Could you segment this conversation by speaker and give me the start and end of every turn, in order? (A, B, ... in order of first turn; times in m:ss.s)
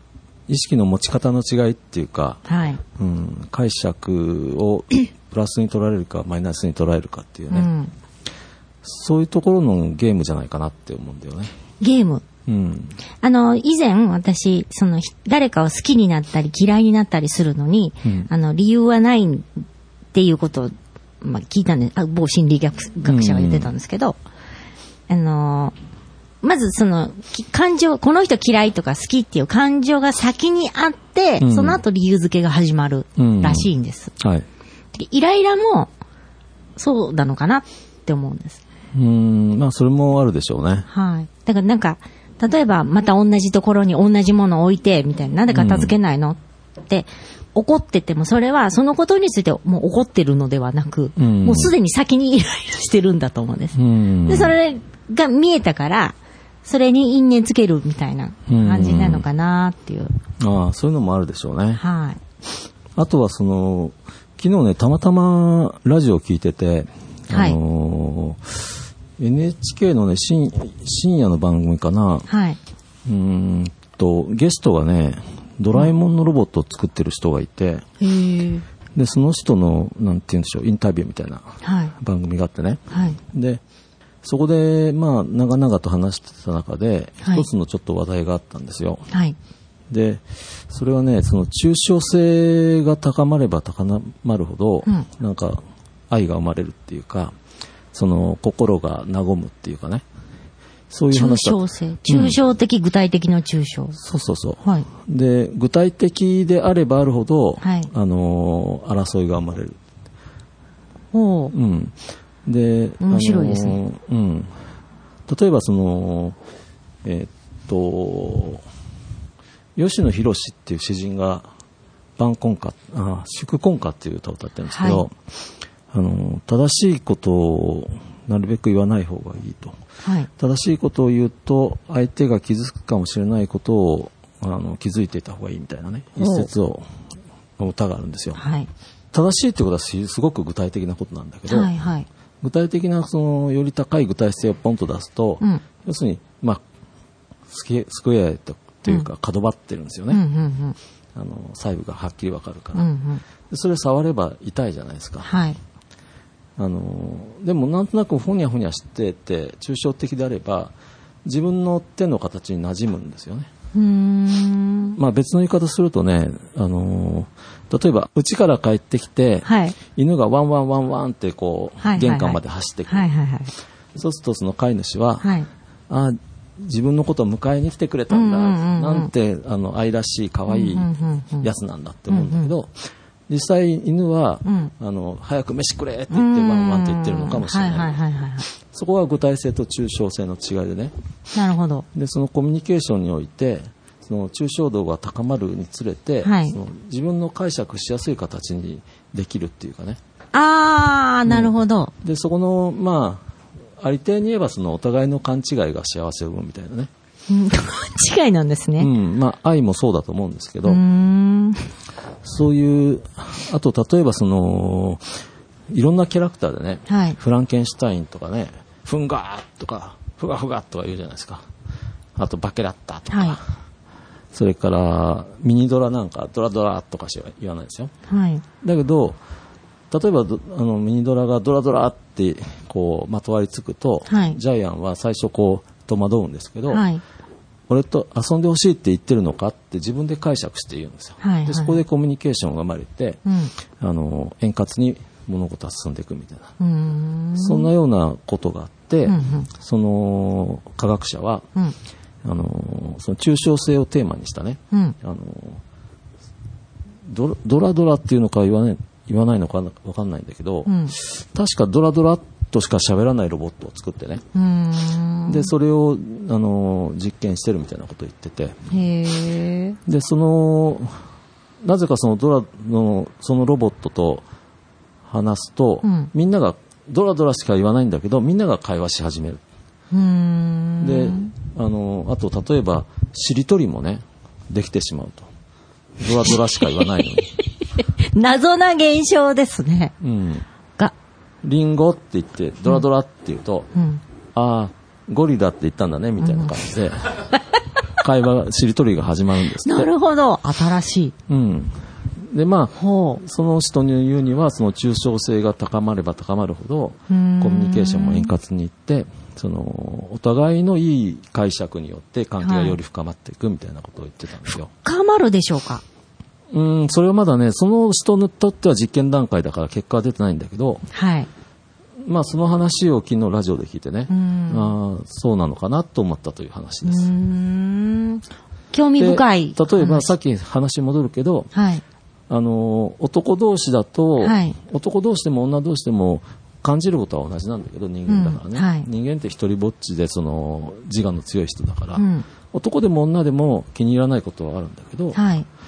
0:00.5-0:02.4 A
0:02.5-0:02.8 B
0:03.0-0:07.7 A
0:07.5-0:07.9 B
0:08.8-0:11.5 A
0:11.8-0:12.2 B
0:12.5-0:13.0 A
0:13.2-0:24.2 B
0:18.0-0:18.3 A
0:23.0-0:23.7 A
0:25.1-0:25.8 B
0:26.4-0:34.1 B
0:31.4-0:31.8 A
0:33.2-0:34.5 A
0:35.0-0:35.9 B
0:36.8-0:38.6 B
0:38.9-0:40.9 A
0:40.9-1:00.1 B
0:45.5-0:45.9 A
0:51.2-0:51.7 A
0:53.8-0:54.6 A
0:58.5-0:59.2 A
1:00.4-1:01.8 A
1:01.8-1:02.2 B
1:03.0-1:12.3 A
1:07.3-1:07.6 B
1:12.3-1:12.6 B
1:13.1-1:17.8 A
1:18.0-1:18.6 B
1:19.0-1:23.6 A
1:21.6-1:21.9 B
1:22.9-1:23.2 B
1:24.2-1:29.1 A
1:27.2-1:27.5 B
1:29.9-1:37.3 A
1:37.9-1:40.0 A
1:40.9-1:42.4 A
1:41.1-1:44.0 B
1:44.0-1:49.8 A
1:47.6-1:47.9 B
1:51.1-1:51.5 B
1:51.5-1:54.5 A
1:53.0-1:53.8 B
1:55.3-1:56.4 A
1:57.0-1:58.6 A
1:59.8-2:01.5 A
2:02.2-2:05.2 A
2:04.7-2:05.0 B
2:05.9-2:09.8 A
2:10.0-2:10.3 B
2:10.4-2:16.8 A
2:16.2-2:16.5 B
2:17.6-2:18.4 A
2:18.4-2:18.7 B
2:19.1-2:21.7 A
2:21.5-2:22.1 B
2:22.4-2:26.6 A
2:27.5-2:30.2 A
2:30.1-2:30.8 B
2:31.2-2:32.9 A
2:32.7-2:33.2 B
2:33.5-2:35.3 A
2:35.2-2:35.6 B
2:36.6-2:40.7 A
2:41.2-2:43.5 A
2:43.7-2:45.0 B
2:45.0-2:53.1 A
2:49.4-2:49.8 B
2:51.8-2:53.5 B
2:54.0-2:55.3 A
2:55.2-2:55.5 B
2:55.9-3:00.9 A
2:58.1-2:59.1 B
3:00.5-3:01.5 B
3:01.4-3:08.0 A
3:02.1-3:02.5 B
3:04.4-3:04.7 B
3:06.1-3:08.5 B
3:08.7-3:10.9 A
3:11.3-3:11.9 B
3:11.9-3:20.0 A
3:16.2-3:16.6 B
3:20.3-3:21.9 B
3:21.3-3:23.2 A
3:23.8-3:26.9 A
3:27.3-3:28.9 B
3:28.8-3:30.8 A
3:30.6-3:31.7 B
3:32.2-3:35.1 A
3:35.7-3:41.5 A
3:36.9-3:37.2 B
3:42.2-3:43.4 A
3:43.1-3:43.4 B
3:44.3-3:47.9 A
3:48.1-3:48.4 B
3:48.6-3:49.2 A
3:49.9-3:56.8 A
3:54.1-3:54.4 B
3:56.7-3:57.0 B
3:57.7-4:03.2 A
4:01.2-4:01.8 B
4:03.3-4:03.5 B
4:03.8-4:06.5 A
4:06.6-4:07.7 B
4:07.4-4:11.5 A
4:09.1-4:09.5 B
4:12.2-4:15.6 A
4:17.0-4:24.2 A
4:20.7-4:20.9 B
4:24.4-4:25.5 B
4:25.3-4:28.6 A
4:28.7-4:29.8 B
4:29.9-4:31.0 A
4:31.6-4:34.2 A
4:35.1-4:39.4 A
4:35.8-4:36.1 B
4:39.9-4:41.3 B
4:40.8-4:45.3 A
4:46.0-4:47.3 A
4:46.2-4:47.2 B
4:48.0-4:49.9 B
4:50.0-4:50.4 A
4:51.4-4:53.7 A
4:53.7-4:54.0 B
4:54.4-4:57.3 A
4:56.2-4:56.6 B
4:58.0-4:59.9 A
4:59.6-5:01.2 B
5:01.3-5:14.7 A
5:02.8-5:03.2 B
5:07.1-5:08.3 B
5:12.4-5:12.8 B
5:14.5-5:15.8 B
5:16.5-5:20.8 A
5:20.9-5:21.3 B
5:22.0-5:27.1 A
5:24.1-5:24.7 B
5:26.8-5:30.1 B
5:29.0-5:31.5 A
5:31.5-5:31.8 B
5:32.3-5:45.2 A
5:34.2-5:34.6 B
5:38.1-5:38.9 B
5:42.0-5:42.3 B
5:45.1-5:45.5 B